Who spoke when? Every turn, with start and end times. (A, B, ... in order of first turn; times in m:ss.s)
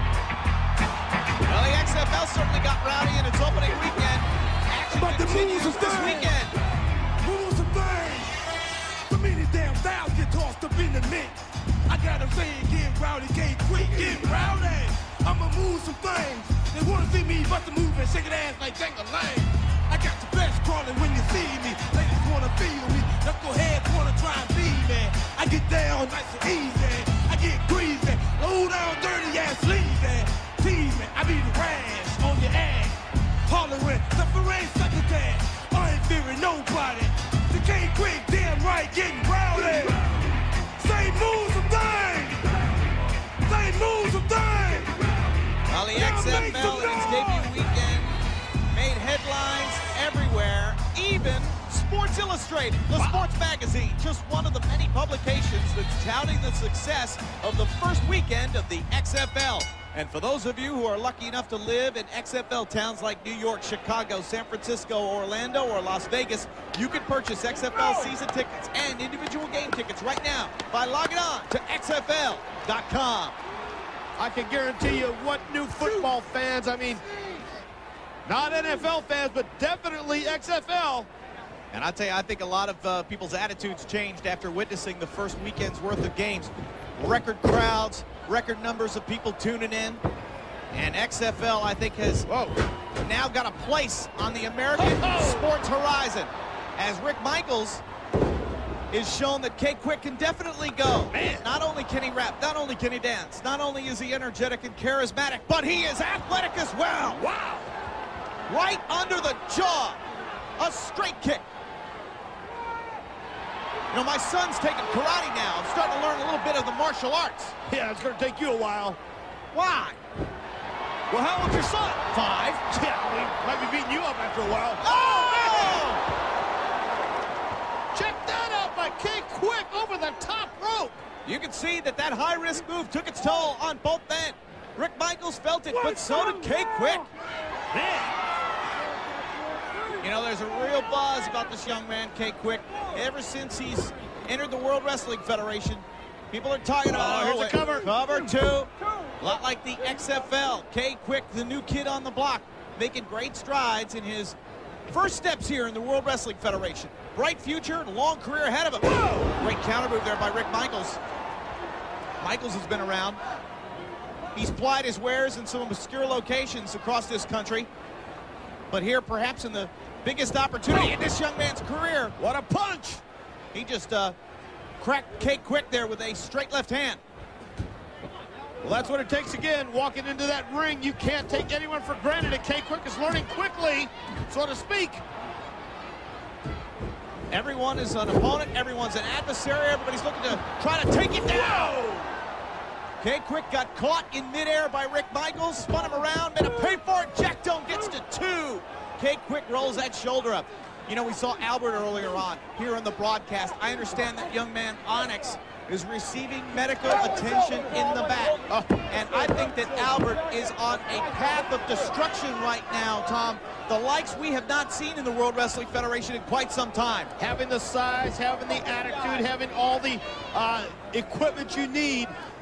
0:01.4-0:06.5 A
0:04.9-0:06.5 B
0:07.2-0:45.4 B
0:45.7-0:48.1 A
0:45.9-0:47.6 B
0:48.7-1:13.4 A
1:14.2-1:17.0 C
1:18.2-1:21.1 C
1:21.7-1:30.0 A
1:30.7-1:32.3 A
1:32.3-1:32.6 C
1:33.0-1:37.8 A
1:34.8-1:35.5 C
1:38.9-1:47.2 A
1:41.1-1:41.4 C
1:47.2-1:47.7 C
1:48.5-1:50.0 A
1:50.6-1:51.4 A
1:53.9-1:57.6 A
1:57.7-1:59.0 C
1:59.5-2:00.0 A
2:01.1-2:02.1 C
2:02.0-2:02.6 A
2:02.6-2:06.0 C
2:04.8-2:06.0 A
2:07.9-2:11.0 C
2:11.2-2:17.1 A
2:17.7-2:18.1 C
2:20.0-2:34.4 A
2:26.8-2:27.9 C
2:34.9-2:41.0 A
2:42.2-2:43.2 A
2:44.3-2:47.7 A
2:48.7-2:52.1 A
2:52.2-2:53.0 C
2:53.5-2:54.2 A
2:54.8-2:57.0 A
2:58.6-3:05.0 C
3:07.3-3:12.0 A
3:13.0-3:37.1 A
3:37.2-3:42.1 C